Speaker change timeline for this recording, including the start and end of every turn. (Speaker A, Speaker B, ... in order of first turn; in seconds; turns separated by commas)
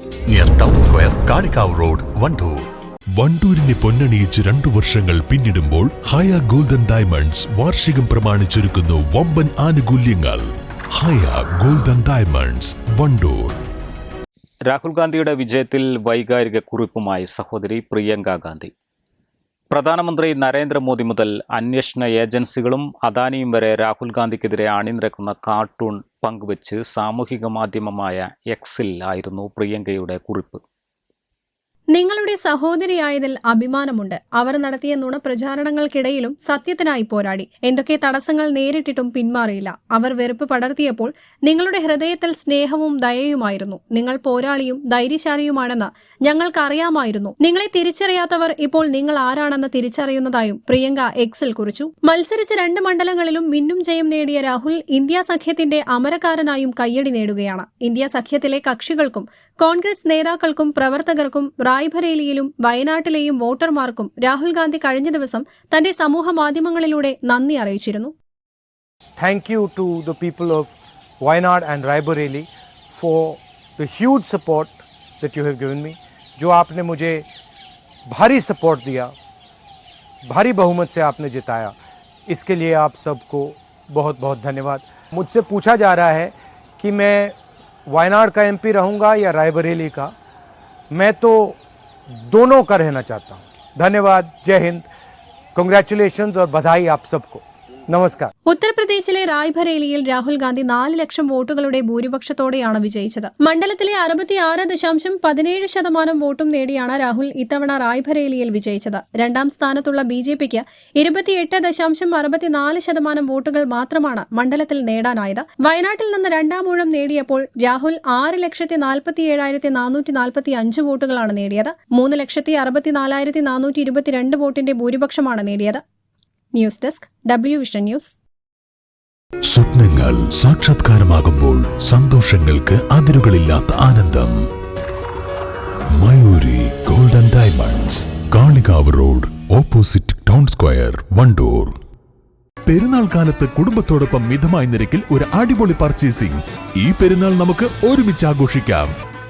Speaker A: 0.3-2.6, Speaker B: 3.2-13.6, Speaker C: 14.7-18.7, Speaker C: 19.7-30.6, Speaker D: 31.9-68.2, Speaker E: 69.2-77.3, Speaker E: 78.1-79.1, Speaker E: 80.3-81.8, Speaker E: 82.3-87.3, Speaker E: 87.9-90.1, Speaker E: 90.9-91.6, Speaker E: 92.3-94.9, Speaker E: 95.5-98.3, Speaker D: 98.5-125.8, Speaker D: 126.5-128.2, Speaker B: 129.5-134.4, Speaker B: 135.9-141.8, Speaker B: 142.7-148.9